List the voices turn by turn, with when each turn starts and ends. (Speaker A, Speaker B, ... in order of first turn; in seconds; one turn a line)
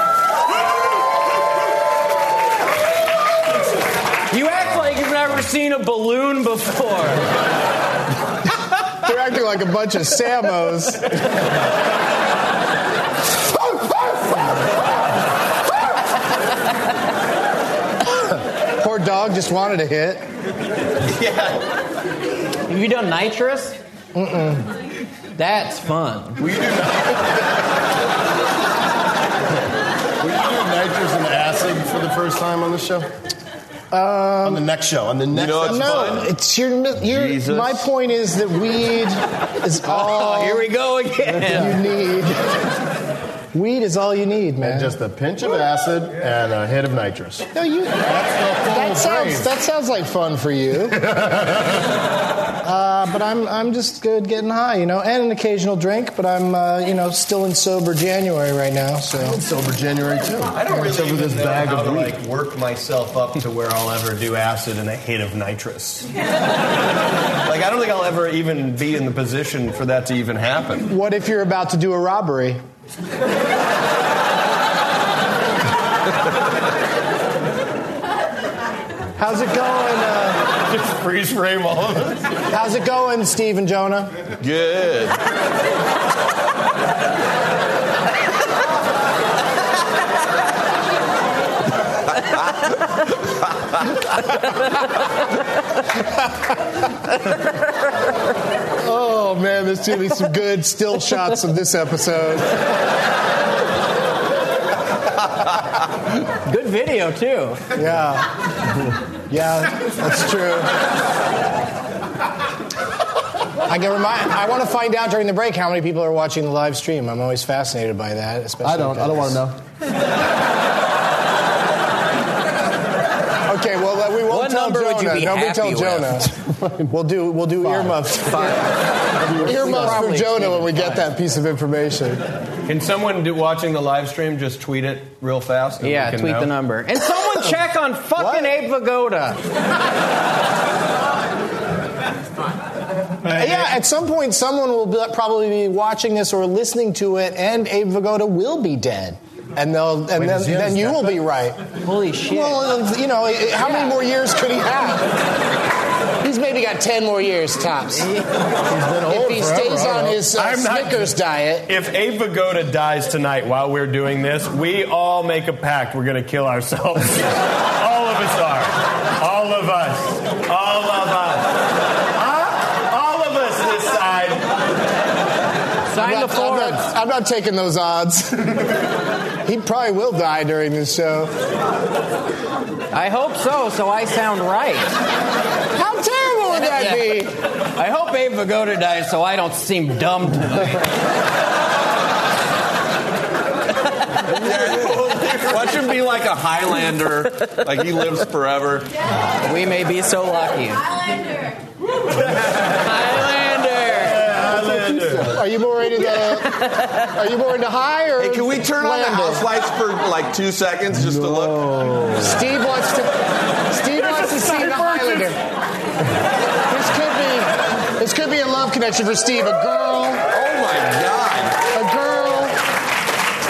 Speaker A: 4.3-7.3
Speaker B: 9.0-11.2
Speaker B: 18.2-20.3
Speaker C: 21.2-21.6
Speaker A: 22.7-23.8
Speaker B: 24.1-24.7
Speaker A: 25.4-26.4
Speaker D: 26.4-27.3
Speaker D: 30.2-33.1
Speaker B: 33.9-34.6
Speaker D: 34.4-36.2
Speaker E: 35.3-36.3
Speaker B: 35.6-40.7
Speaker E: 37.0-37.9
Speaker A: 39.9-41.8
Speaker B: 41.4-42.4
Speaker B: 43.5-45.0
Speaker D: 44.6-47.5
Speaker B: 47.5-51.1
Speaker D: 48.0-49.5
Speaker D: 51.0-51.8
Speaker B: 52.6-59.4
Speaker D: 59.2-62.2
Speaker C: 60.5-66.1
Speaker C: 67.5-70.9
Speaker B: 70.9-72.6
Speaker B: 79.2-80.5
Speaker C: 80.6-82.2
Speaker B: 82.5-84.2
Speaker E: 84.4-85.2
Speaker B: 98.8-102.6
Speaker A: 106.4-107.6
Speaker B: 107.7-108.3
Speaker B: 109.3-110.7
Speaker B: 113.7-119.4
Speaker D: 118.6-119.6
Speaker B: 123.5-128.6
Speaker A: 124.3-126.3
Speaker D: 126.7-126.9
Speaker A: 128.3-128.7
Speaker D: 129.2-130.0
Speaker A: 129.3-131.1
Speaker B: 129.4-132.2
Speaker C: 132.7-136.5
Speaker A: 135.8-139.4
Speaker B: 138.2-138.6
Speaker C: 143.3-143.7
Speaker B: 143.3-151.6
Speaker D: 150.2-151.2
Speaker A: 151.8-152.7
Speaker B: 152.2-155.2
Speaker A: 153.6-154.0
Speaker B: 156.2-158.1
Speaker A: 158.0-158.3
Speaker D: 158.7-160.3
Speaker B: 159.1-161.7
Speaker C: 160.3-161.1
Speaker C: 161.7-171.5
Speaker C: 172.2-174.5
Speaker A: 175.9-176.9
Speaker B: 175.9-178.8
Speaker B: 179.4-181.3
Speaker A: 182.9-184.9
Speaker B: 185.7-187.3
Speaker A: 186.5-190.9
Speaker E: 194.3-198.9
Speaker A: 199.4-201.1
Speaker A: 202.7-204.2
Speaker C: 204.0-205.4
Speaker D: 204.2-205.3
Speaker B: 205.3-209.5
Speaker E: 208.2-211.7
Speaker D: 210.9-212.3
Speaker B: 212.2-215.4
Speaker C: 214.5-215.1
Speaker B: 216.7-220.3
Speaker E: 220.3-221.6
Speaker B: 221.7-222.6